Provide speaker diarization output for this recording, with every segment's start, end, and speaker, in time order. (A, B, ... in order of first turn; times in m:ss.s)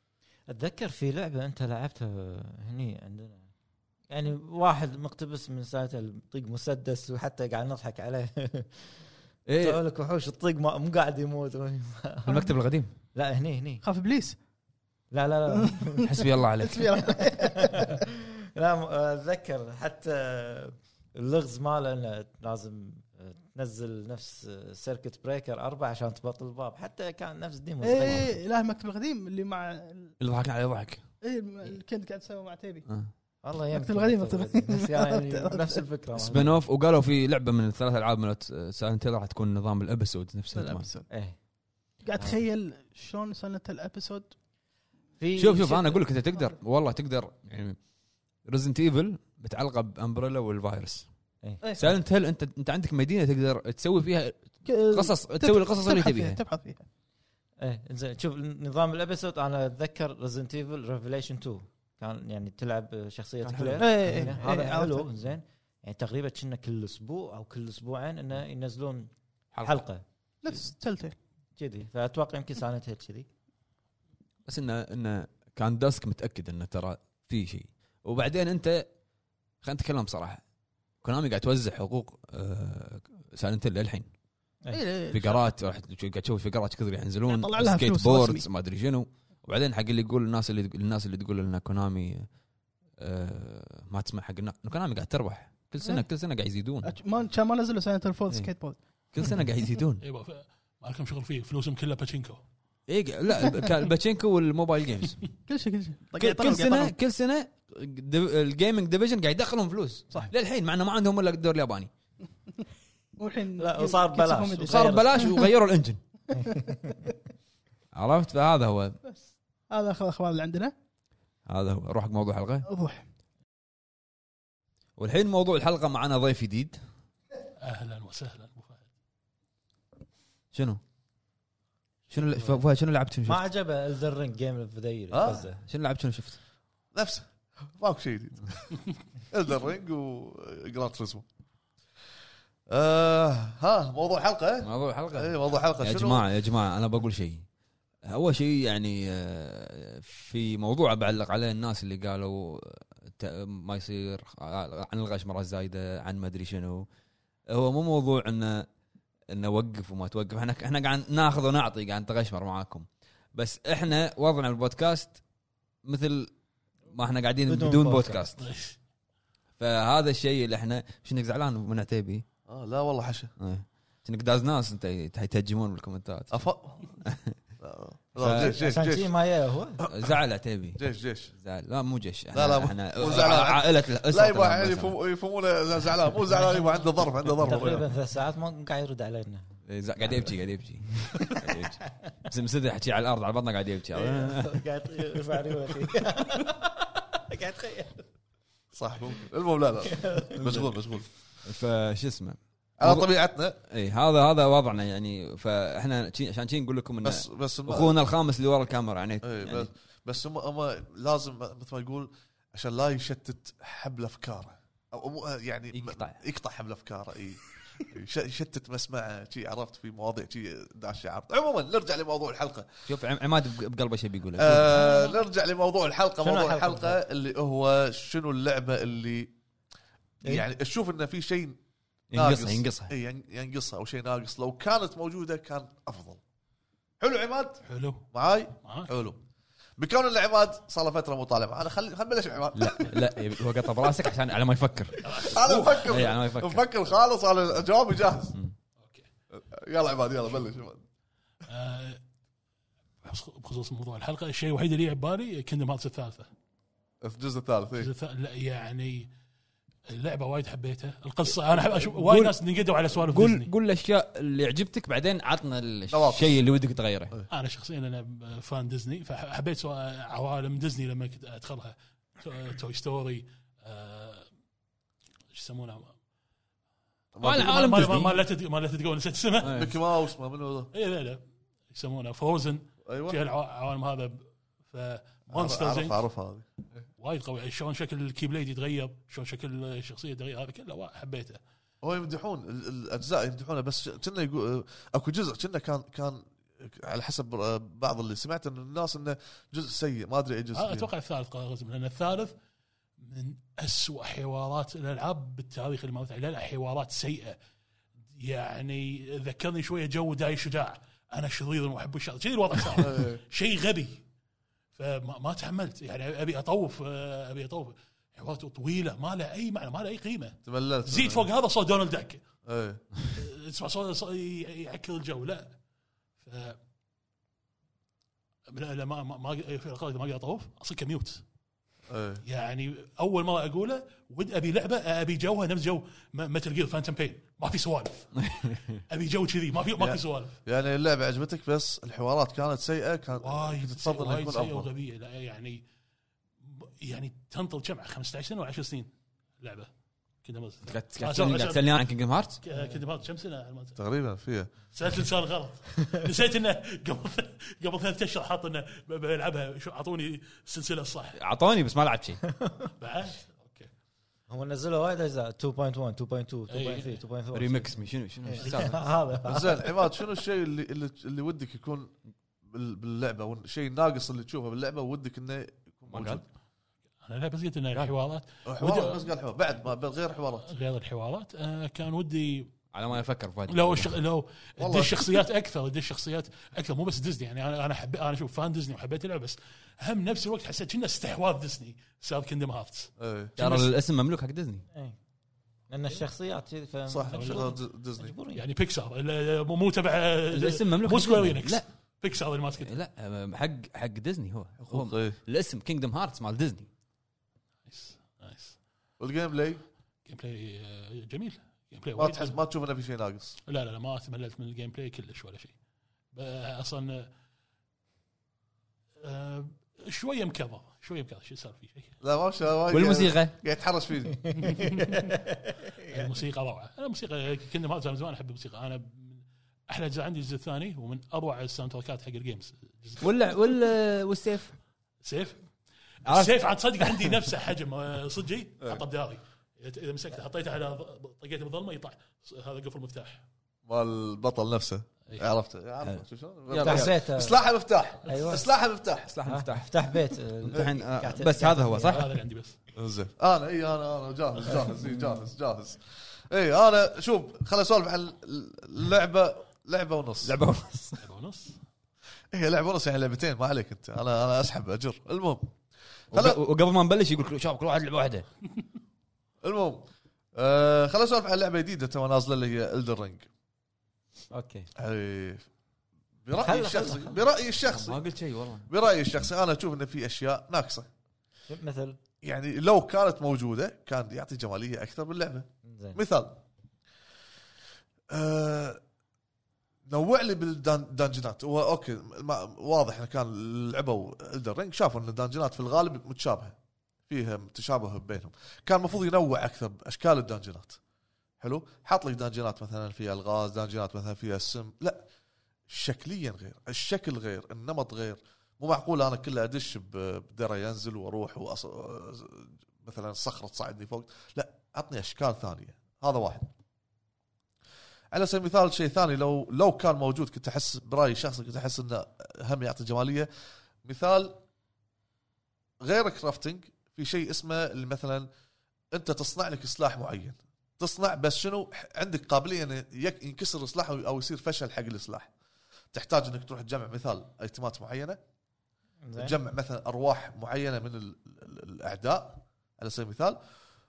0:00.5-0:03.5 A
0:04.1-0:09.0 A
0:09.5-0:09.8 B
0:09.6-0:12.4 A
0:12.3-0:12.9 B
0:13.1-0:13.8 A
0:13.8-0:14.4 C
0:15.1-0:16.2 A
0:15.6-0:16.0 C
0:16.0-0:16.9 B
0:16.6-0:18.0 C
0:17.2-0:28.4 A
0:27.8-0:30.1 C
0:30.2-0:31.0 B
0:31.2-0:32.8 C
0:33.4-0:36.6 A
0:33.7-0:35.8 C
0:36.2-0:40.8 B
0:40.5-0:41.1 C
0:41.1-0:41.4 A
0:42.0-0:44.3 C
0:45.2-0:46.0 A
0:45.4-0:47.8 B
0:48.4-0:51.0 B
0:51.8-0:56.4 B
0:54.6-0:56.8 C
0:57.6-1:09.1 A
1:03.4-1:04.3 B
1:03.8-1:05.0 C
1:09.6-1:10.6 A
1:10.4-1:11.1 C
1:11.6-1:13.3 A
1:14.4-1:18.8 B
1:19.6-1:20.4 B
1:21.0-1:24.1 B
1:24.7-1:25.5 C
1:25.1-1:32.3 B
1:27.3-1:28.4 C
1:33.0-1:37.0 B
1:36.8-1:38.8 C
1:39.1-1:40.0 B
1:40.0-1:42.4 D
1:42.9-1:45.3 B
1:45.5-1:46.9 C
1:46.2-1:51.9 B
1:53.2-1:55.4 C
1:53.6-1:55.4 A
1:54.7-1:56.0 B
1:56.3-1:56.9 C
1:56.4-1:57.0 A
1:57.9-1:59.0 B
1:59.0-2:00.7 C
2:01.5-2:02.7 B
2:02.6-2:03.0 C
2:05.0-2:06.8 B
2:07.6-2:08.9 D
2:10.5-2:10.8 B
2:12.1-2:13.4 B
2:12.3-2:12.6 A
2:13.2-2:15.6 A
2:15.1-2:15.5 E
2:15.5-2:16.4 B
2:16.9-2:21.2 E
2:22.7-2:26.3 E
2:24.6-2:27.4 B
2:28.0-2:36.8 B
2:37.5-2:38.7 B
2:39.3-2:45.2 B
2:45.8-2:46.3 B
2:46.9-2:48.4 B
2:47.4-2:48.3 A
2:48.4-2:48.8 D
2:49.6-2:52.2 B
2:52.5-2:53.3 E
2:53.4-2:56.4 B
2:56.3-2:56.9 E
2:57.0-2:57.4 B
2:57.6-2:59.1 E
2:58.2-2:58.6 B
2:58.4-2:59.8 A
2:59.8-3:00.1 E
2:59.9-3:00.8 B
3:00.8-3:01.3 E
3:01.3-3:05.0 B
3:02.3-3:07.8 E
3:07.4-3:09.5 A
3:09.7-3:14.6 B
3:11.1-3:11.7 A
3:13.9-3:18.0 A
3:18.7-3:21.1 E
3:19.9-3:20.6 A
3:21.4-3:23.1 B
3:22.8-3:23.6 E
3:23.7-3:29.7 B
3:27.0-3:27.9 E
3:29.2-3:42.7 E
3:35.7-3:36.2 B
3:42.9-3:44.9 B
3:44.4-3:49.3 E
3:44.8-3:45.2 D
3:46.2-3:47.0 A
3:50.2-3:51.6 E
3:52.1-3:52.9 B
3:52.1-3:56.2 E
3:57.0-3:59.2 E
3:57.6-3:58.0 D
3:58.6-3:58.9 D
3:59.8-4:03.1 E
4:02.6-4:06.6 B
4:05.0-4:06.0 D
4:05.2-4:08.4 E
4:09.3-4:10.8 E
4:11.5-4:12.0 D
4:13.0-4:16.3 D
4:17.0-4:17.9 E
4:17.8-4:19.1 D
4:19.9-4:23.5 D
4:21.7-4:22.3 B
4:23.0-4:27.1 B
4:25.9-4:26.4 E
4:27.3-4:34.3 D
4:35.3-4:35.9 D
4:37.2-4:38.0 E
4:37.2-4:38.2 B
4:37.2-4:39.7 D
4:39.4-4:40.7 E
4:39.4-4:39.7 B
4:40.7-4:46.0 D
4:42.8-4:43.2 E
4:45.3-4:46.4 E
4:47.0-4:51.4 D
4:51.8-5:00.9 E
5:00.5-5:02.3 D
5:03.0-5:07.4 D
5:08.1-5:14.0 D
5:12.7-5:13.2 E
5:14.7-5:22.2 D
5:20.4-5:21.3 E
5:22.4-5:22.8 E
5:23.1-5:25.6 D
5:26.2-5:26.6 D
5:28.5-5:31.2 D
5:31.9-5:32.2 E
5:32.2-5:40.4 D
5:38.3-5:38.8 B
5:39.8-5:44.7 E
5:43.2-5:45.6 D
5:46.4-5:49.7 D
5:50.2-5:51.7 D
5:50.6-5:52.4 B
5:52.4-5:53.8 D
5:53.8-5:54.5 E
5:54.7-6:01.2 D
6:01.2-6:02.2 B
6:02.3-6:02.7 A
6:02.8-6:03.7 D
6:04.3-6:07.7 A
6:06.5-6:07.0 D
6:07.3-6:08.9 B
6:08.2-6:09.8 A
6:08.4-6:08.8 D
6:09.2-6:11.9 E
6:12.5-6:16.2 E
6:15.9-6:16.2 B
6:17.0-6:19.1 D
6:18.4-6:20.5 E
6:20.4-6:22.5 D
6:22.7-6:23.9 B
6:23.5-6:33.7 D
6:24.6-6:25.2 E
6:33.0-6:33.4 E
6:33.4-6:34.6 B
6:35.7-6:38.4 A
6:36.9-6:38.1 E
6:37.1-6:37.5 D
6:38.3-6:42.7 D
6:40.3-6:41.6 B
6:42.6-6:46.7 B
6:44.6-6:45.2 E
6:47.6-6:48.6 D
6:49.0-6:49.6 E
6:50.0-6:52.4 D
6:52.0-6:53.4 E
6:53.5-6:55.5 D
6:56.1-6:57.1 D
6:59.0-7:01.9 D
7:02.0-7:04.6 E
7:02.7-7:03.3 B
7:04.3-7:06.0 A
7:04.4-7:05.1 D
7:05.8-7:13.1 D
7:13.0-7:14.5 B
7:15.0-7:15.4 D
7:16.0-7:23.2 D
7:16.0-7:16.3 B
7:23.6-7:29.1 E
7:25.8-7:26.9 B
7:26.6-7:27.4 A
7:28.0-7:28.4 A
7:29.1-7:29.7 B
7:29.2-7:32.0 A
7:30.4-7:32.1 B
7:31.8-7:32.6 D
7:32.7-7:40.3 E
7:40.2-7:41.0 B
7:41.0-7:41.6 D
7:42.3-7:45.5 E
7:46.1-7:46.4 E
7:46.1-7:48.2 B
7:49.4-7:49.8 E
7:50.4-7:53.3 E
7:54.3-7:54.7 A
7:54.8-7:55.5 E
7:56.2-7:58.0 E
7:56.4-7:57.2 A
7:57.7-7:58.7 B
7:58.7-8:00.9 E
8:01.5-8:02.0 A
8:02.2-8:06.4 E
8:05.6-8:06.0 A
8:08.1-8:08.8 E
8:09.9-8:16.6 E
8:17.1-8:20.8 E
8:21.4-8:25.0 E
8:25.7-8:36.5 E
8:38.1-8:43.3 E
8:43.8-8:44.4 E
8:45.8-8:48.3 E
8:48.9-8:55.3 E
8:55.9-8:58.2 E
8:59.0-8:59.4 A
8:59.2-9:03.4 E